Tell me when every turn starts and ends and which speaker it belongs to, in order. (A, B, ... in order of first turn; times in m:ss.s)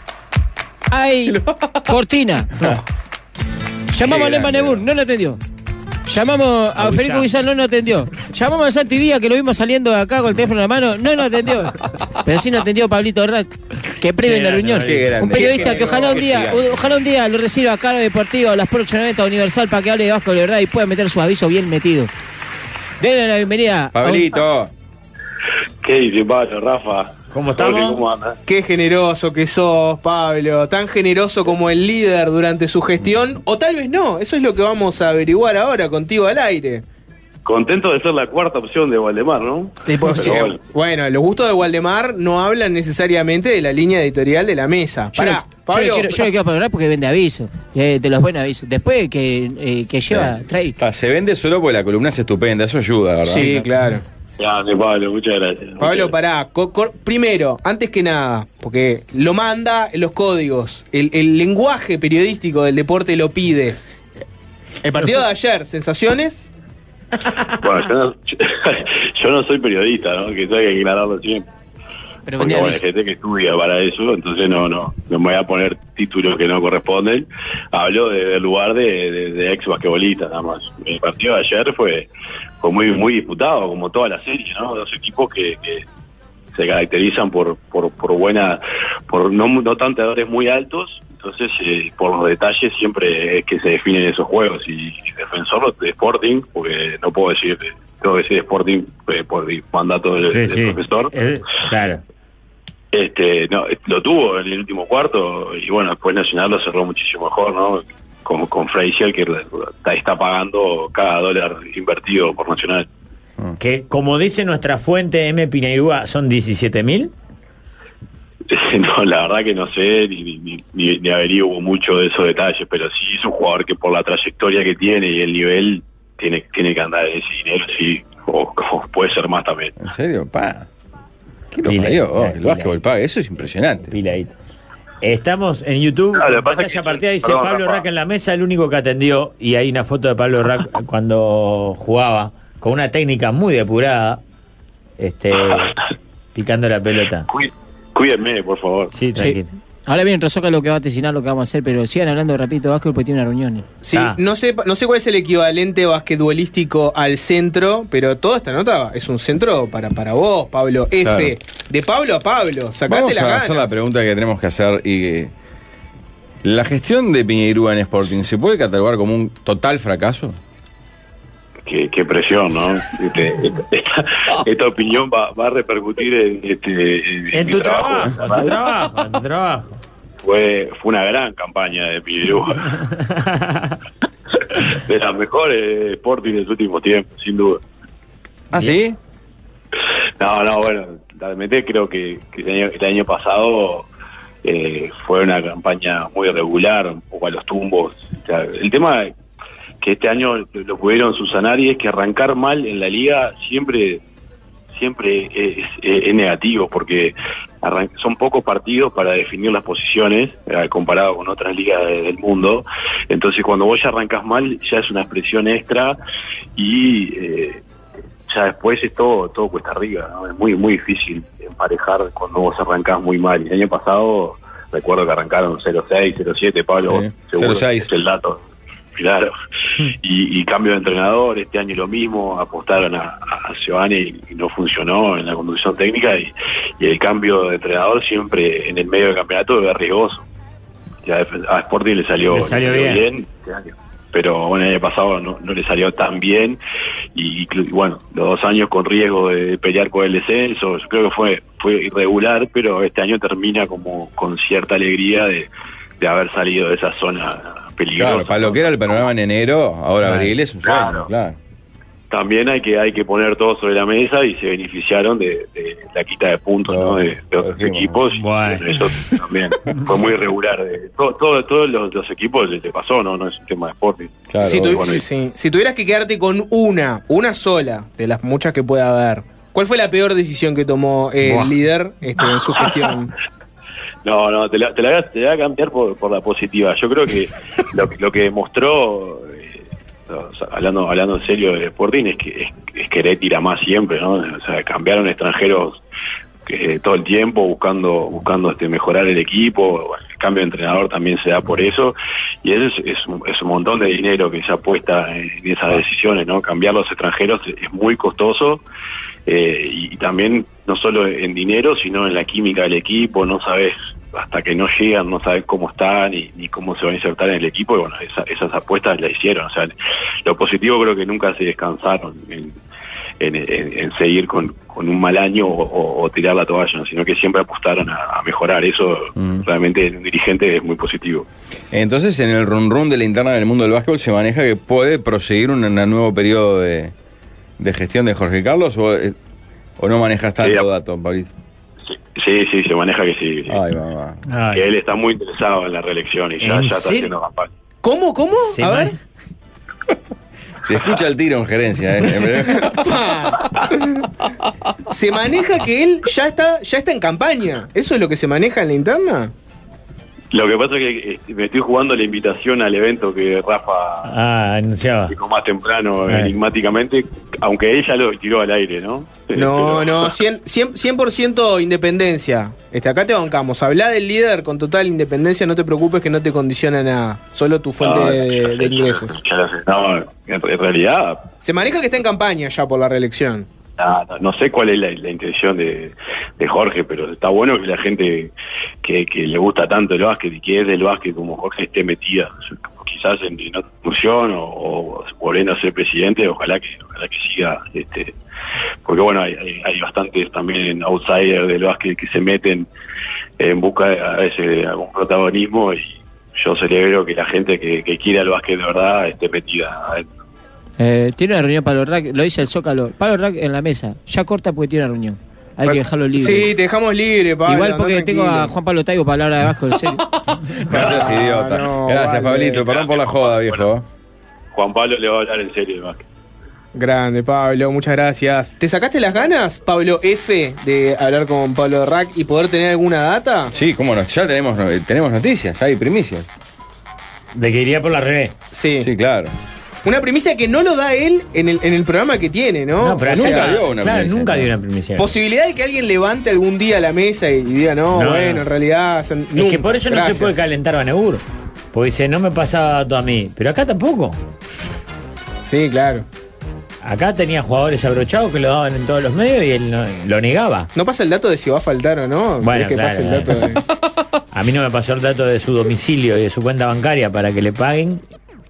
0:00.9-0:02.5 A
0:03.9-0:05.4 A
0:04.0-0:04.8 B
0:06.1-0:22.1 A
0:06.8-0:07.3 C
0:14.2-0:16.8 C
0:14.7-0:16.5 B
0:15.3-0:16.3 D
0:23.0-0:24.4 A
0:23.9-0:24.7 B
0:25.8-0:28.4 E
0:27.3-0:28.0 C
0:28.5-0:36.8 D
0:37.4-0:40.6 E
0:39.9-0:46.2 D
0:45.2-0:50.8 A
0:50.1-0:53.5 B
0:53.3-0:54.0 D
0:54.4-0:56.1 E
0:55.8-1:03.8 D
1:04.8-1:06.5 D
1:07.6-1:11.4 E
1:12.2-1:12.8 A
1:12.4-1:22.1 E
1:22.6-1:25.8 E
1:26.5-1:41.1 E
1:40.2-1:42.0 C
1:42.9-1:52.8 E
1:53.6-1:57.1 C
1:58.5-2:09.7 E
2:09.8-2:10.7 B
2:11.5-2:13.9 B
2:11.6-2:12.8 C
2:13.9-2:14.3 C
2:15.0-2:24.2 C
2:16.1-2:17.8 E
2:25.0-2:25.7 C
2:25.5-2:25.8 E
2:26.3-2:27.3 C
2:27.3-2:28.9 E
2:28.9-2:29.5 C
2:29.2-2:33.6 A
2:33.8-2:43.7 D
2:33.9-2:34.2 C
2:41.0-2:41.3 B
2:42.9-2:45.3 B
2:46.4-2:50.4 B
2:51.6-2:58.5 E
2:57.3-2:59.8 C
3:00.2-3:02.7 E
3:03.0-3:03.8 C
3:04.7-3:07.6 E
3:08.5-3:09.0 B
3:10.2-3:13.9 E
3:14.4-3:19.1 E
3:19.8-3:24.0 E
3:24.7-3:36.0 E
3:36.6-3:37.6 E
3:38.3-3:48.4 E
3:46.9-3:47.9 B
3:48.9-3:49.3 E
3:50.0-4:00.2 E
4:01.0-4:06.6 E
4:02.3-4:03.0 C
4:07.1-4:15.5 E
4:16.0-4:19.0 E
4:18.0-4:21.4 B
4:20.0-4:20.3 C
4:20.6-4:21.0 E
4:22.1-4:35.0 E
4:26.7-4:28.0 B
4:28.1-4:28.7 C
4:34.3-4:34.9 B
4:34.4-4:43.1 D
4:44.0-4:55.8 E
4:56.4-5:08.6 E
5:09.2-5:19.7 E
5:20.2-5:22.6 E
5:23.2-5:31.2 E
5:29.2-5:29.4 B
5:31.7-5:36.9 B
5:37.6-5:39.1 B
5:39.8-5:41.3 B
5:40.4-5:40.6 E
5:41.9-5:43.6 E
5:43.5-5:44.2 B
5:44.3-5:44.6 C
5:44.5-5:47.5 E
5:46.4-5:47.1 C
5:47.8-5:48.9 D
5:48.4-5:49.0 C
5:50.6-5:52.9 B
5:52.5-5:53.9 D
5:54.9-5:59.3 D
6:00.3-6:04.1 E
6:04.0-6:05.1 C
6:05.1-6:10.1 E
6:06.1-6:06.3 C
6:09.3-6:19.1 D
6:17.8-6:21.2 E
6:21.4-6:23.5 D
6:23.8-6:38.1 E
6:38.8-6:42.7 E
6:43.4-6:50.0 E
6:50.8-6:56.5 A
6:55.6-6:58.5 D
6:57.5-7:00.0 A
7:00.6-7:03.8 B
7:00.7-7:02.7 D
7:02.6-7:03.6 E
7:04.5-7:06.0 E
7:06.7-7:13.5 D
7:13.5-7:16.3 B
7:17.3-7:18.3 C
7:18.5-7:18.9 D
7:18.8-7:19.3 B
7:19.8-7:23.4 D
7:22.8-7:25.1 C
7:23.1-7:24.5 B
7:25.0-7:30.5 D
7:27.9-7:28.4 C
7:29.3-7:34.2 C
7:35.4-7:36.0 D
7:36.8-7:40.7 C
7:40.7-7:43.6 D
7:42.4-7:43.5 C
7:44.3-7:48.0 C